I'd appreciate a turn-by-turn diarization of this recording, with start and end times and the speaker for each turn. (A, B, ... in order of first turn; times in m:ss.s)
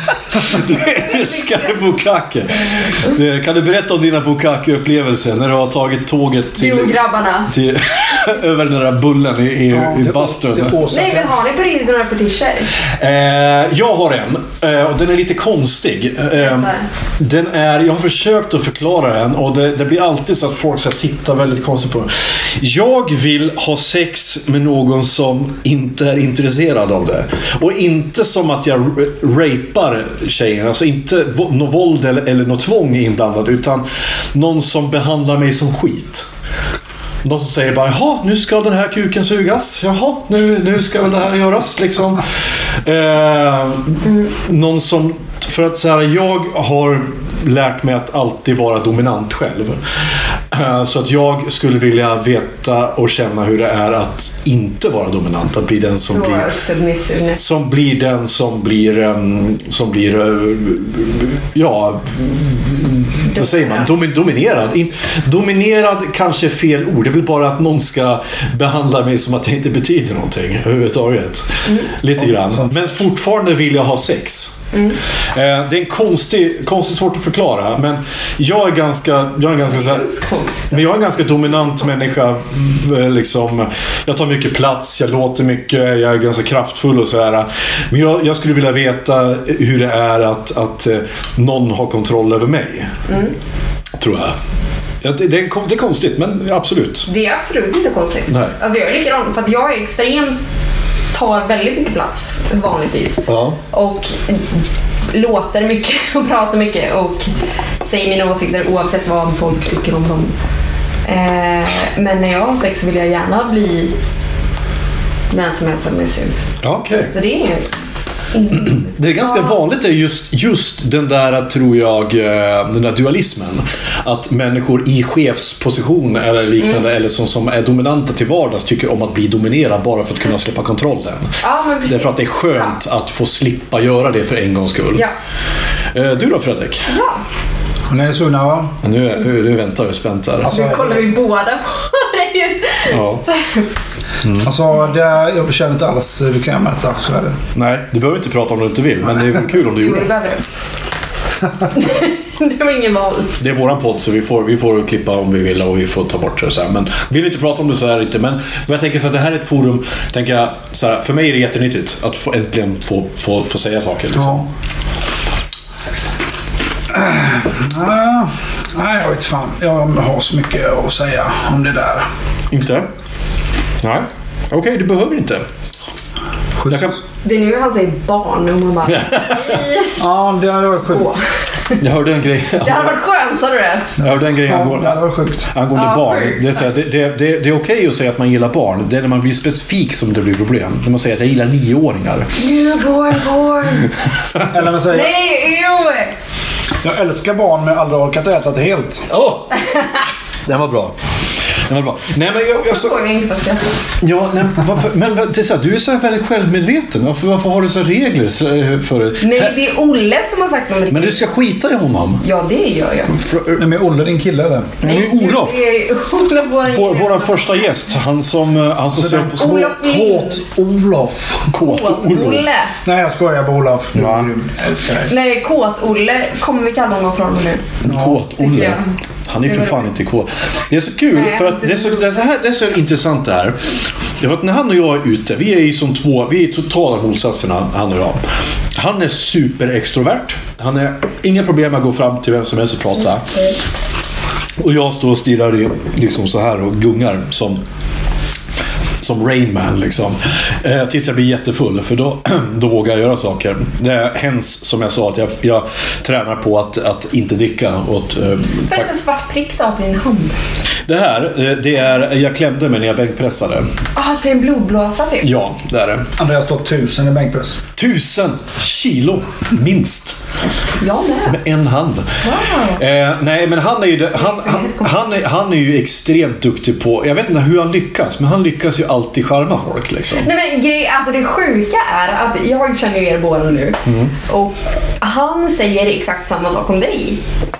0:00.3-0:07.0 A
0:06.6-0:07.5 B
0:07.5-0:10.8 A
0:09.7-0:11.3 C
0:10.9-0:12.7 B
0:13.0-0:36.2 A
0:16.3-0:16.9 B
0:37.2-0:42.2 A
0:42.8-0:49.8 A
0:44.0-0:44.3 B
0:50.5-0:56.5 A
0:56.1-0:57.4 B
0:57.4-1:14.5 A
1:03.3-1:03.9 B
1:12.2-1:12.9 C
1:15.3-1:20.0 A
1:19.6-1:20.8 B
1:20.7-1:33.0 A
1:33.1-1:33.3 B
1:34.0-1:34.4 A
1:35.0-1:37.1 A
1:37.1-1:40.4 B
1:38.3-1:38.5 A
1:41.1-1:50.3 B
1:43.3-1:43.6 A
1:51.0-1:53.9 B
1:55.3-1:56.4 B
1:56.6-1:57.1 A
1:57.1-1:57.7 B
1:58.3-1:59.5 B
1:58.8-2:15.0 A
2:11.4-2:12.7 B
2:15.9-2:16.9 A
2:16.9-2:17.2 B
2:17.9-2:18.7 C
2:18.8-2:20.5 A
2:20.4-2:21.1 C
2:20.4-2:23.7 B
2:22.9-2:23.2 A
2:24.2-2:24.5 A
2:24.4-2:27.4 C
2:27.5-2:30.1 A
2:29.7-2:30.4 B
2:31.7-2:33.3 B
2:33.4-2:44.4 A
2:44.2-2:44.4 C
2:46.9-2:52.1 C
2:52.5-2:52.8 A
2:53.8-2:55.4 A
2:56.6-2:57.0 C
2:56.7-2:57.0 A
2:57.2-2:59.9 B
2:58.8-2:59.7 A
3:00.0-3:01.2 C
3:00.9-3:01.8 B
3:01.8-3:02.9 A
3:02.6-3:03.9 B
3:04.0-3:05.5 C
3:04.0-3:05.0 A
3:05.5-3:12.3 A
3:05.7-3:06.7 B
3:12.4-3:13.9 B
3:14.5-3:15.1 C
3:14.9-3:16.1 B
3:16.8-3:19.1 C
3:19.1-3:19.7 A
3:20.4-3:20.9 A
3:21.5-3:22.9 A
3:22.6-3:23.8 B
3:24.0-3:29.6 A
3:29.2-3:31.2 B
3:30.9-3:32.2 A
3:32.2-3:33.2 B
3:33.1-3:33.6 A
3:33.6-3:34.8 C
3:34.8-3:35.6 A
3:34.8-3:37.7 B
3:36.7-3:39.6 A
3:38.9-3:41.4 C
3:39.3-3:40.4 B
3:41.5-3:42.4 A
3:41.6-3:42.7 B
3:42.8-3:45.1 C
3:43.9-3:44.3 A
3:45.1-3:47.6 B
3:47.8-3:58.2 A
3:47.8-3:48.2 C
3:48.4-3:49.8 B
3:51.1-3:52.1 B
3:58.7-4:03.3 A
4:04.6-4:07.6 A
4:09.0-4:18.9 A
4:18.7-4:20.4 B
4:20.9-4:23.7 A
4:24.0-4:25.3 B
4:25.2-4:26.0 A
4:26.2-4:27.6 C
4:27.8-4:30.2 A
4:30.8-4:31.4 B
4:31.3-4:32.2 A
4:32.2-4:32.8 B
4:32.8-4:40.3 A
4:34.1-4:35.0 B
4:40.2-4:47.2 B
4:43.8-4:44.1 A